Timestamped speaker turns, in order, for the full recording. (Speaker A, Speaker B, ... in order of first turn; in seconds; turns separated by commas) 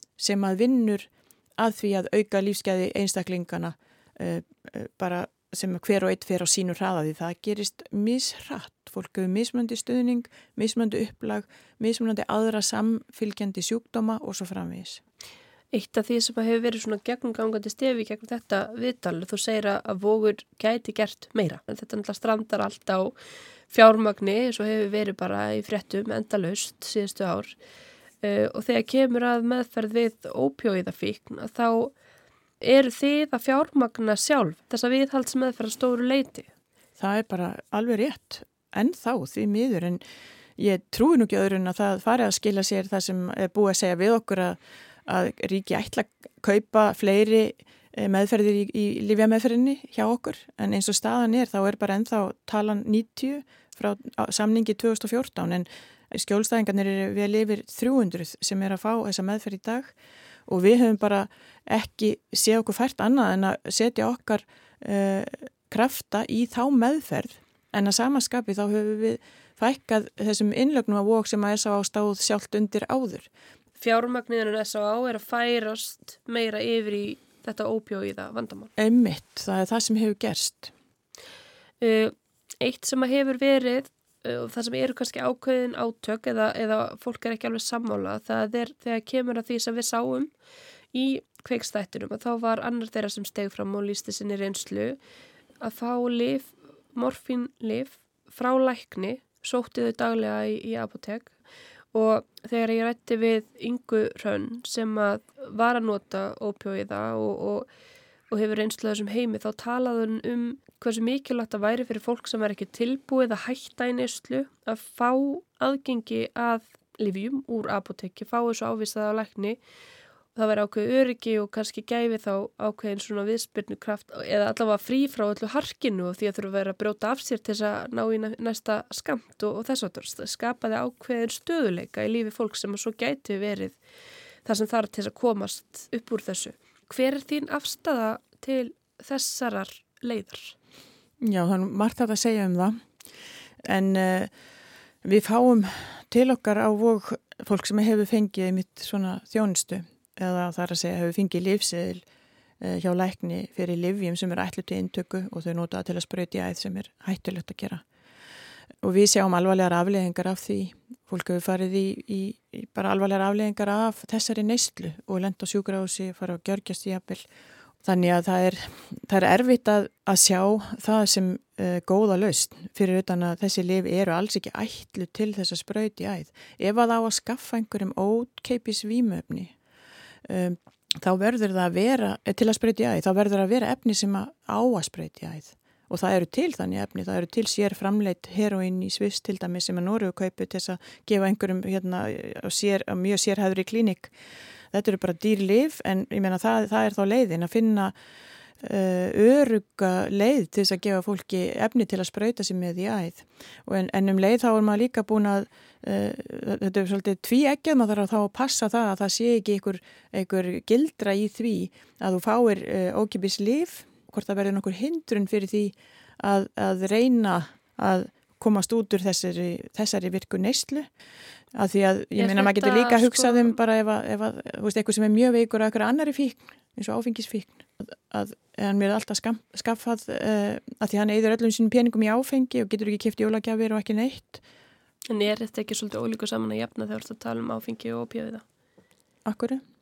Speaker A: 0.2-15.0, Speaker B: 15.7-23.2, Speaker B: 23.7-27.6, Speaker B: 28.2-31.9, Speaker B: 32.6-36.5, Speaker A: 37.0-40.0, Speaker A: 40.6-59.9, Speaker A: 60.5-73.3, Speaker B: 73.8-78.7, Speaker A: 78.8-80.7, Speaker B: 81.8-90.3, Speaker B: 90.9-95.0, Speaker B: 95.6-101.3, Speaker B: 101.9-107.7, Speaker B: 108.3-119.6, Speaker B: 120.3-133.8, Speaker B: 134.4-140.6, Speaker A: 141.2-142.8, Speaker A: 143.6-144.3, Speaker A: 145.0-152.0, Speaker A: 152.6-157.8, Speaker A: 158.8-167.3, Speaker A: 167.8-179.5, Speaker A: 180.3-194.1, Speaker A: 194.7-197.9, Speaker A: 198.6-220.9, Speaker A: 221.6-234.4, Speaker B: 222.2-223.6, Speaker B: 235.1-238.4, Speaker A: 239.3-239.6